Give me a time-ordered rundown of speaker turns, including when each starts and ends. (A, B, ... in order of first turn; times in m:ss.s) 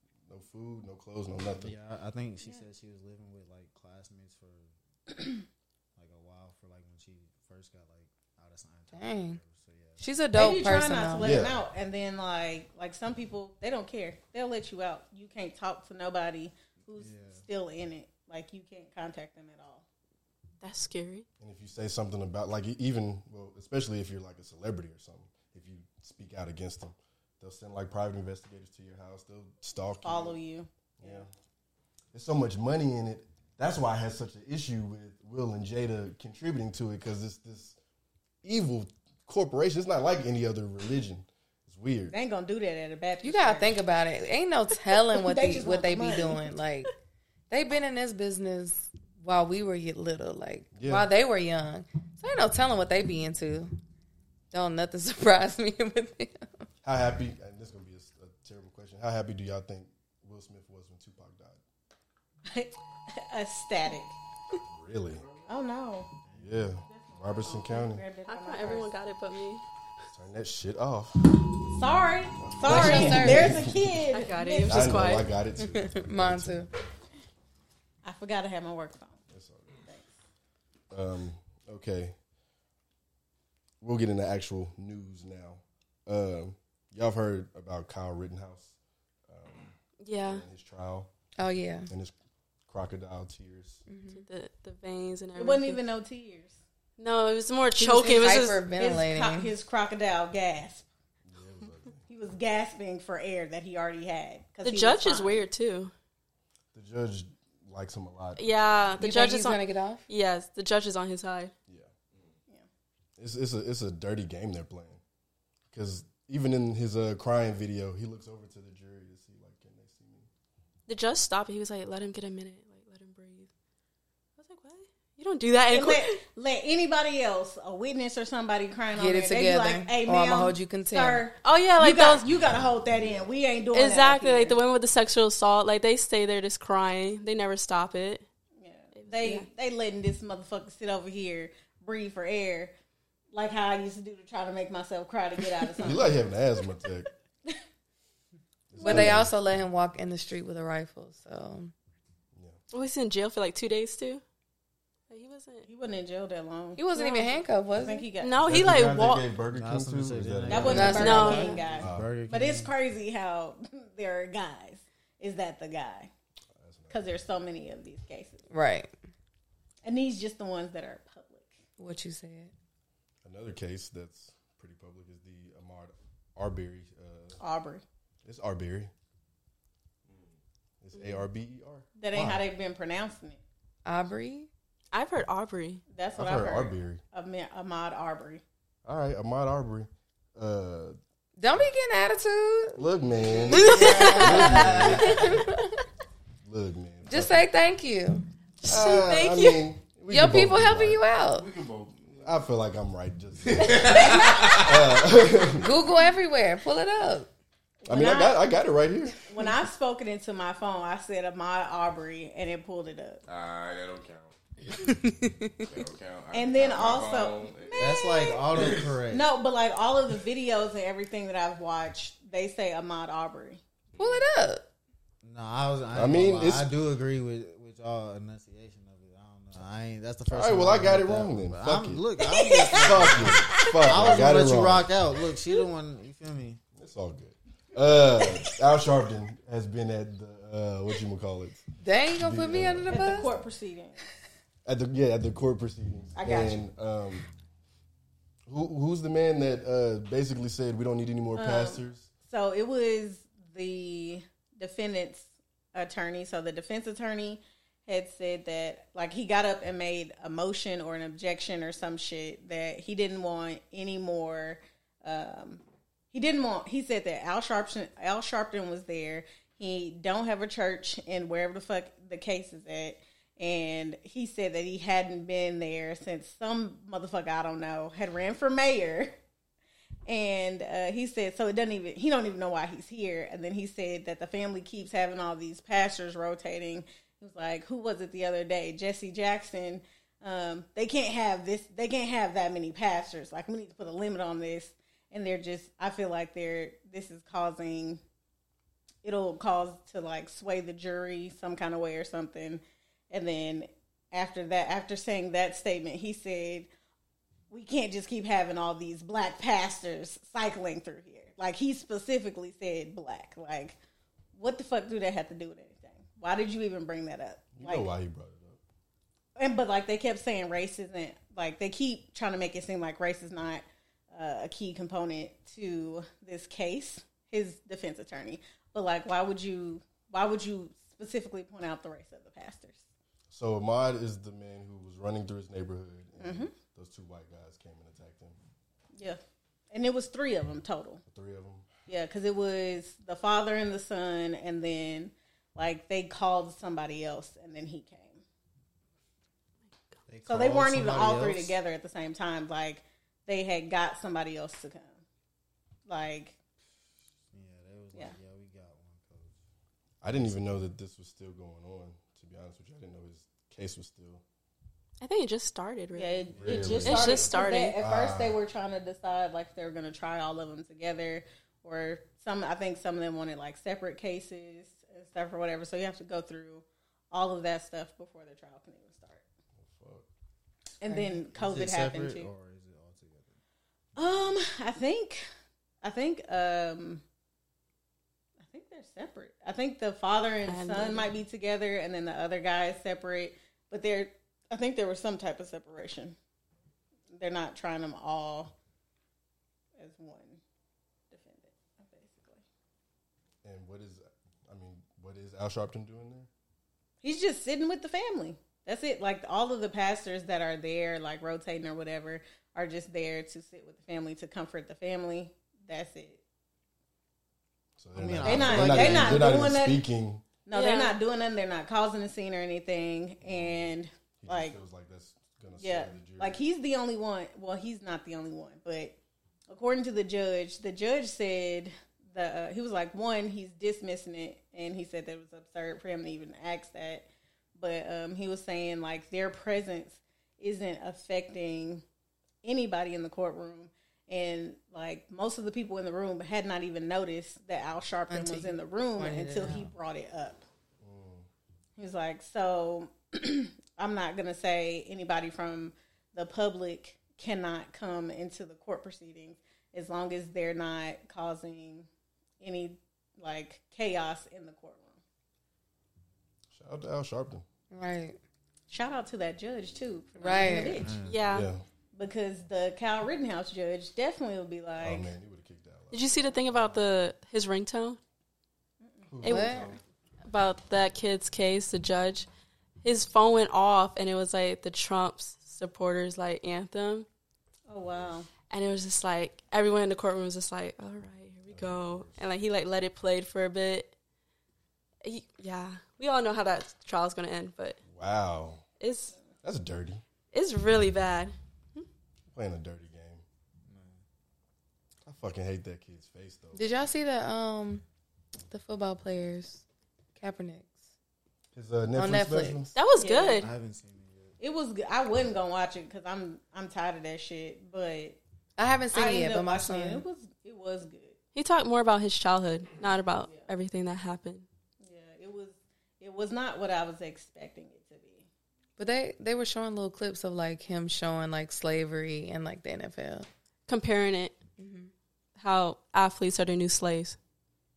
0:00.3-0:01.7 A
0:01.5-0:05.4 B
0:06.0-0:10.1 B
0:08.9-0:09.4 C
0:10.0-0:11.4 C
0:10.3-0:19.8 D
0:11.2-0:11.6 A
0:16.9-0:17.4 B
0:20.6-0:21.2 E
0:21.4-0:30.4 A
0:30.0-0:31.3 D
0:31.0-0:31.3 A
0:32.1-0:37.8 A
0:38.4-0:42.1 A
0:42.1-0:43.8 D
0:43.2-0:46.9 C
0:45.1-0:46.4 D
0:47.5-0:53.7 C
0:50.8-0:51.1 A
0:54.5-0:56.6 C
0:56.8-1:01.6 A
1:02.5-1:04.1 D
1:04.6-1:05.2 A
1:05.5-1:06.1 D
1:06.3-1:06.6 B
1:06.4-1:08.0 A
1:06.8-1:08.9 D
1:08.3-1:09.6 E
1:10.1-1:11.4 A
1:11.7-1:15.0 D
1:12.4-1:14.0 A
1:12.6-1:13.6 C
1:14.1-1:15.3 E
1:14.6-1:16.7 A
1:15.6-1:16.7 C
1:18.0-1:19.2 D
1:19.3-1:19.8 A
1:20.9-1:22.2 A
1:23.8-1:28.8 A
1:29.3-1:31.1 A
1:30.0-1:30.4 E
1:31.4-1:31.9 C
1:31.9-1:32.1 A
1:32.7-1:33.8 A
1:33.9-1:34.2 C
1:34.1-1:35.8 E
1:35.4-1:36.6 D
1:37.0-1:38.6 E
1:37.8-1:39.5 C
1:38.7-1:40.8 D
1:41.2-1:42.0 A
1:42.1-1:45.4 D
1:44.6-1:45.9 E
1:46.7-1:48.4 A
1:48.4-1:51.5 E
1:49.0-1:50.0 C
1:53.2-1:55.0 A
1:55.7-2:00.3 A
2:00.9-2:03.5 E
2:04.4-2:06.2 E
2:05.7-2:14.6 D
2:08.9-2:11.2 C
2:11.4-2:12.2 E
2:13.7-2:18.2 E
2:18.6-2:22.7 D
2:18.9-2:19.5 E
2:23.3-2:26.2 D
2:25.8-2:27.1 A
2:28.7-2:29.3 A
2:28.8-2:31.7 C
2:28.8-2:29.2 D
2:32.7-2:34.2 E
2:35.1-2:35.7 E
2:35.6-2:38.4 D
2:36.8-2:38.1 C
2:38.2-2:39.3 E
2:38.4-2:41.1 A
2:39.5-2:42.7 B
2:40.5-2:46.1 D
2:40.6-2:41.6 C
2:41.0-2:41.6 E
2:41.8-2:42.1 A
2:46.6-2:47.0 A
2:46.9-2:48.4 D
2:48.5-2:48.9 C
2:49.8-2:51.6 D
2:51.8-2:52.5 C
2:53.2-2:57.4 A
2:57.4-2:57.8 D
2:58.2-2:58.9 A
3:00.8-3:01.9 A
3:00.9-3:01.2 E
3:02.0-3:03.4 D
3:02.1-3:02.4 B
3:03.8-3:04.5 C
3:04.9-3:05.8 E
3:05.9-3:08.4 D
3:06.1-3:07.0 A
3:08.8-3:11.0 A
3:11.4-3:12.8 C
3:12.8-3:15.4 A
3:13.3-3:13.9 F
3:13.5-3:14.9 E
3:13.5-3:15.8 C
3:16.4-3:17.4 A
3:17.1-3:18.2 C
3:18.6-3:19.6 E
3:18.6-3:21.0 A
3:20.1-3:21.5 C
3:21.3-3:22.4 F
3:22.2-3:25.7 A
3:23.4-3:25.0 F
3:23.9-3:24.3 D
3:25.6-3:27.3 C
3:27.8-3:28.4 D
3:27.9-3:29.2 A
3:29.2-3:33.2 D
3:33.3-3:34.4 F
3:34.8-3:35.7 C
3:35.6-3:37.9 F
3:36.3-3:43.6 D
3:37.8-3:39.3 B
3:38.5-3:38.9 F
3:43.9-3:44.2 F
3:44.0-3:44.6 C
3:45.2-3:56.6 B
3:45.9-3:46.7 A
3:50.3-3:52.0 A
3:52.2-3:54.2 D
3:52.8-3:54.9 A
3:56.8-4:01.6 A
4:01.8-4:03.3 C
4:02.2-4:03.2 A
4:02.9-4:04.0 D
4:04.6-4:07.3 A
4:06.2-4:06.6 D
4:08.5-4:12.1 A
4:11.3-4:25.6 D
4:26.1-4:39.1 D
4:40.1-4:58.0 D
4:59.0-5:06.7 D
5:07.5-5:13.8 D
5:14.3-5:17.9 D
5:17.5-5:18.6 A
5:19.4-5:32.8 D
5:33.3-5:38.4 A
5:36.2-5:36.5 D
5:39.7-5:41.0 D
5:41.0-5:41.7 A
5:41.9-5:48.2 D
5:50.1-5:51.6 B
5:50.2-5:55.0 D
5:55.9-5:56.4 D
5:57.3-5:59.3 B
6:00.0-6:04.2 A
6:05.0-6:07.8 E
6:06.0-6:19.2 D
6:06.3-6:08.4 A
6:06.3-6:06.8 B
6:19.6-6:20.1 A
6:20.8-6:22.3 D
6:20.9-6:21.1 C
6:21.3-6:23.3 B
6:24.0-6:25.2 D
6:25.8-6:27.0 D
6:28.4-6:36.2 D
6:30.5-6:31.1 E
6:37.1-6:38.5 D
6:39.8-6:40.4 D
6:41.1-6:42.4 D
6:43.4-6:46.3 A
6:47.0-6:56.2 D
6:57.8-7:00.2 A
6:57.9-6:59.5 B
6:58.2-6:59.8 D
7:00.4-7:04.6 D
7:00.5-7:00.9 E
7:03.2-7:06.4 A
7:05.6-7:09.0 D
7:09.5-7:21.8 D
7:22.4-7:30.4 D
7:28.1-7:29.7 C
7:30.8-7:31.3 A
7:31.8-7:41.9 D
7:42.4-7:45.0 D
7:46.5-7:47.4 A
7:47.7-7:48.2 C
7:48.7-7:50.9 D
7:50.2-7:50.8 C
7:50.7-7:51.3 B
7:51.0-7:51.5 E
7:51.3-7:51.6 A
7:51.9-7:55.1 D
7:54.8-7:56.1 A
7:55.9-7:58.0 E
7:58.8-7:59.1 D
7:59.1-7:59.8 A
7:59.2-7:59.6 E
7:59.2-7:59.7 C
8:00.2-8:02.3 E
8:02.8-8:07.1 E
8:07.7-8:08.3 D
8:08.5-8:13.9 E
8:11.5-8:12.2 A
8:15.0-8:17.8 E
8:17.9-8:18.6 A
8:18.8-8:19.1 E
8:19.4-8:20.0 A
8:20.3-8:21.8 E
8:22.3-8:23.2 A
8:23.6-8:24.0 B
8:25.0-8:26.6 A
8:26.5-8:27.8 C
8:28.5-8:29.6 C
8:30.2-8:30.7 C
8:31.5-8:32.7 A
8:32.0-8:32.7 C
8:32.7-8:33.5 E
8:33.0-8:33.5 D
8:33.4-8:34.3 B
8:34.4-8:38.2 D
8:38.6-8:40.0 C
8:38.9-8:41.2 D
8:41.3-8:44.4 E
8:44.8-8:48.3 D
8:48.8-8:53.3 C
8:53.7-8:54.3 E
8:54.6-8:54.9 C
8:55.4-8:57.2 E